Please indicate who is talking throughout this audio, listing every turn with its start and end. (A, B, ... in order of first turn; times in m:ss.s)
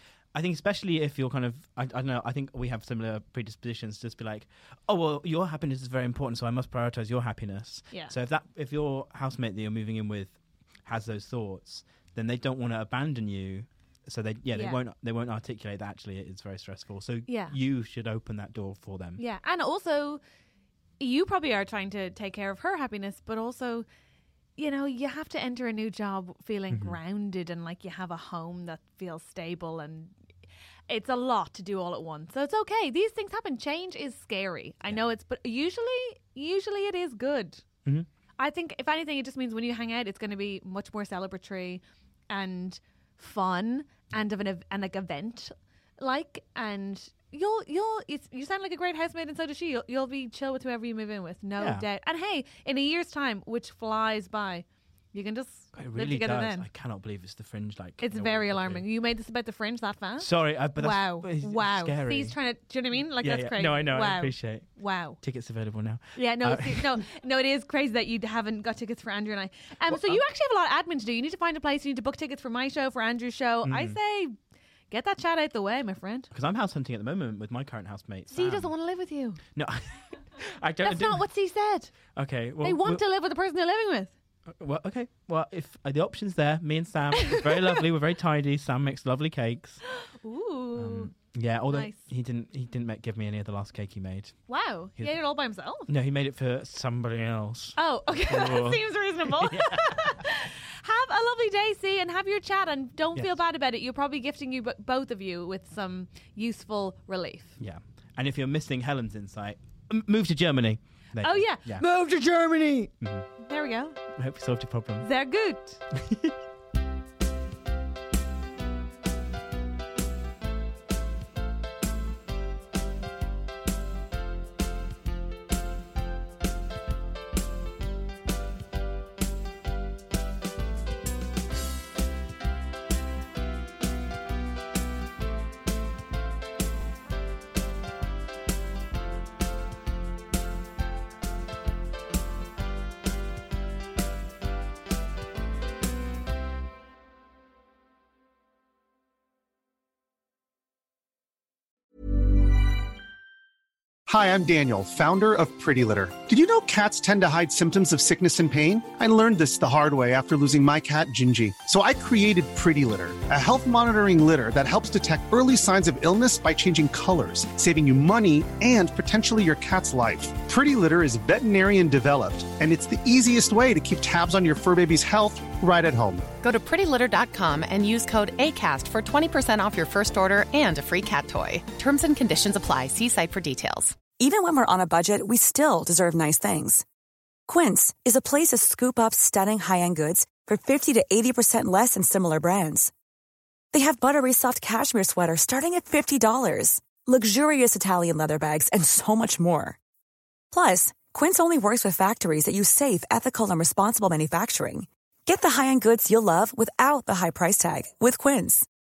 0:00.3-0:19.2 A
0:14.5-0:14.8 B
0:17.3-0:17.5 B
0:19.2-0:20.2 B
0:21.0-0:23.8 B
0:24.6-0:30.1 B
0:26.7-0:27.0 A
0:30.9-0:37.6 B
0:38.4-0:56.7 B
0:51.6-0:51.8 A
0:55.7-0:58.8 A
0:58.0-1:05.2 B
1:00.2-1:02.3 A
1:03.2-1:04.7 A
1:05.2-1:07.0 A
1:06.2-1:14.3 B
1:09.9-1:10.2 A
1:13.6-1:14.0 A
1:14.9-1:16.3 B
1:16.3-1:18.7 A
1:18.3-1:19.4 B
1:19.5-1:21.2 A
1:20.8-1:21.9 B
1:22.1-1:23.0 A
1:22.6-1:24.1 B
1:24.5-1:29.8 A
1:27.2-1:27.6 B
1:30.0-1:31.1 B
1:30.8-1:34.4 A
1:31.7-1:32.0 B
1:34.5-1:35.9 B
1:35.8-1:39.9 A
1:37.8-1:47.6 B
1:47.6-1:51.8 A
1:51.2-1:54.0 B
1:53.0-1:53.3 A
1:54.2-1:55.1 A
1:55.0-1:55.8 B
1:55.9-1:56.3 A
2:34.1-2:56.3 C
2:56.4-3:04.0 D
3:04.1-3:06.8 E
3:07.5-3:12.9 E
3:13.7-3:19.8 E
3:20.5-3:28.6 E